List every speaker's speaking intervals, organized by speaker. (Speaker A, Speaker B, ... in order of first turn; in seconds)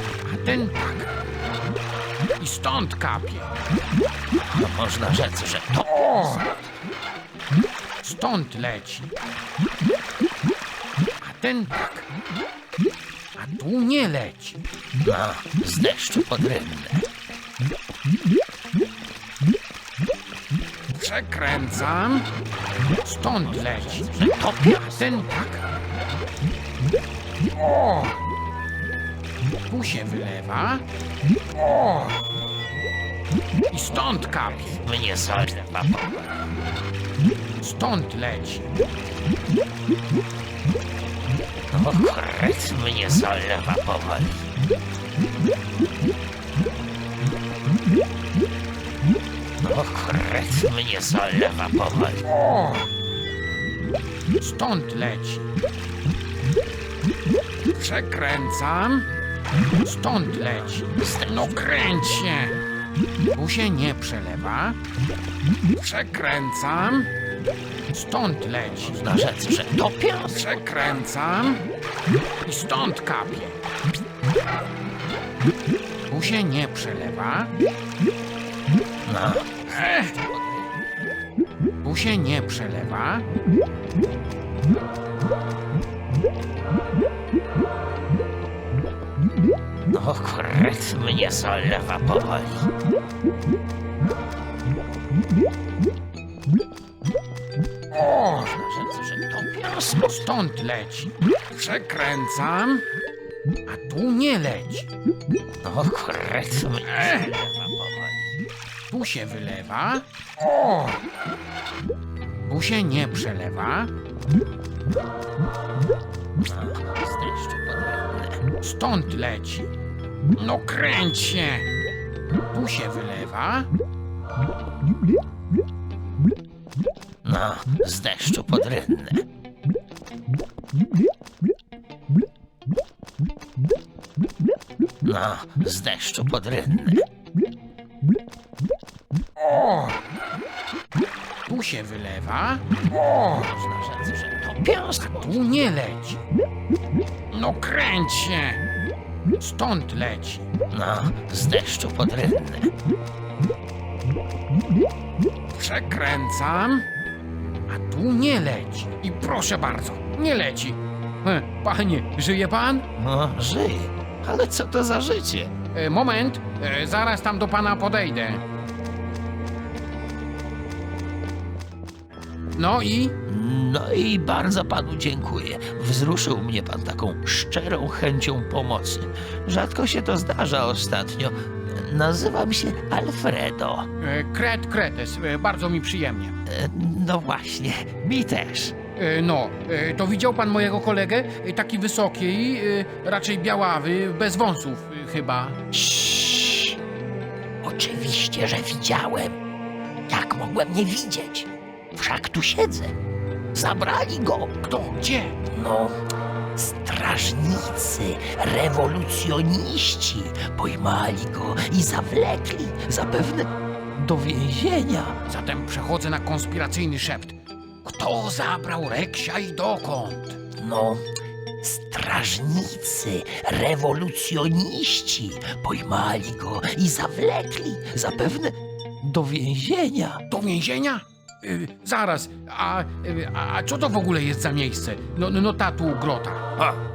Speaker A: 0.2-1.1, 2.4-3.5, 8.0-9.1, 11.2-12.1, 13.4-14.6, 20.9-22.3, 23.0-24.1, 25.0-25.6, 27.8-28.1, 29.7-30.8, 33.7-34.8, 37.6-38.8, 52.5-52.8, 54.4-55.5, 57.7-59.1, 59.8-62.6, 63.3-64.8, 65.8-67.1, 67.9-69.0, 70.3-71.7, 72.4-73.6, 76.1-77.5, 79.7-80.1, 81.8-83.3, 100.0-102.8, 103.7-104.9, 108.9-110.0, 112.5-113.9, 118.6-119.7, 120.4-121.7, 122.5-123.7, 139.5-139.9, 141.5-142.7, 145.0-146.2, 147.3-148.6, 149.4-150.5, 155.5-156.8, 157.7-162.9, 165.7-168.4, 172.5-173.2, 184.0-186.3, 189.0-195.6, 204.6-205.4, 215.3-220.4, 230.3-236.5
Speaker B: 4.5-6.4, 15.0-17.1, 23.4-25.2, 34.8-36.3, 41.7-44.5, 49.6-52.3, 61.0-61.5, 68.9-70.4, 79.0-80.6, 89.9-92.7, 98.0-100.2, 105.6-108.4, 116.4-118.4, 127.2-129.2, 135.0-137.1, 142.9-145.5, 150.7-152.7, 163.0-165.5, 173.3-183.9, 186.5-188.7, 195.7-196.8, 197.6-199.4, 200.1-202.9, 203.5-204.5, 205.5-206.0, 206.6-215.2, 220.6-221.0, 221.6-230.2